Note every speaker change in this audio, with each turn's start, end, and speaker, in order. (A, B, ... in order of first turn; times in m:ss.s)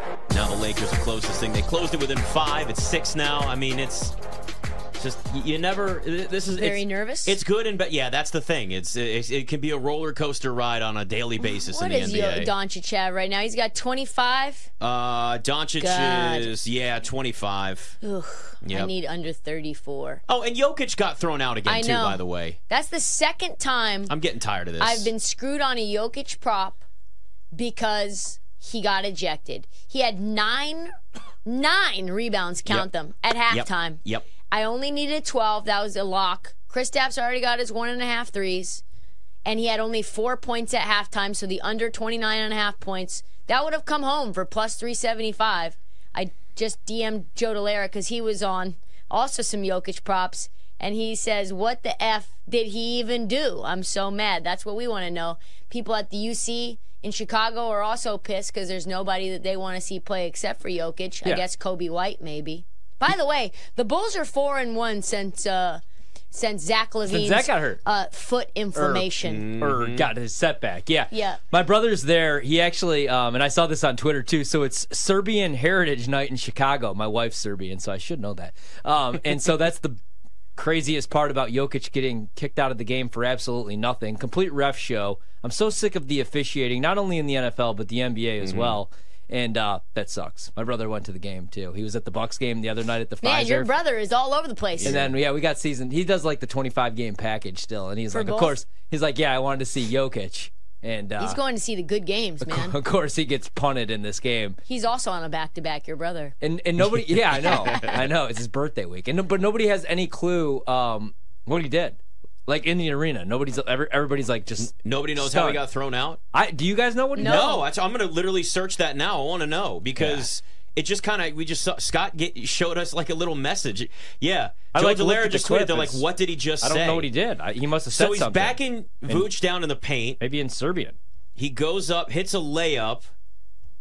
0:00.3-0:04.1 A
0:05.0-0:12.5 A
0:06.6-0:07.4 B
0:11.4-0:14.7 B
0:14.8-0:18.0 A
0:15.8-0:16.6 B
0:18.0-0:20.2 B
0:18.6-0:18.9 A
0:20.3-0:22.6 A
0:21.7-0:24.1 B
0:24.1-0:25.1 A
0:24.8-0:26.8 B
0:27.6-0:30.9 B
0:31.4-0:34.0 B
0:33.5-0:34.3 A
0:34.5-0:38.8 B
0:39.4-1:05.8 B
1:06.3-1:09.4 B
1:07.1-1:07.8 C
1:08.8-1:20.0 C
1:09.2-1:10.1 A
1:11.1-1:11.4 B
1:20.6-1:33.7 C
1:28.4-1:28.8 A
1:33.2-1:34.9 B
1:34.8-1:35.1 A
1:34.8-1:41.4 C
1:38.1-1:38.6 B
1:41.2-1:42.8 B
1:42.4-1:44.6 C
1:44.7-1:46.3 B
1:46.4-1:55.6 C
1:47.5-1:47.8 B
1:54.6-1:56.2 A
1:56.3-1:57.5 C
1:57.2-1:57.6 B
1:57.2-2:07.1 A
2:00.0-2:00.3 C
2:04.7-2:06.0 C
2:06.6-2:09.3 C
2:07.9-2:10.2 A
2:10.2-2:11.0 C
2:11.4-2:13.1 A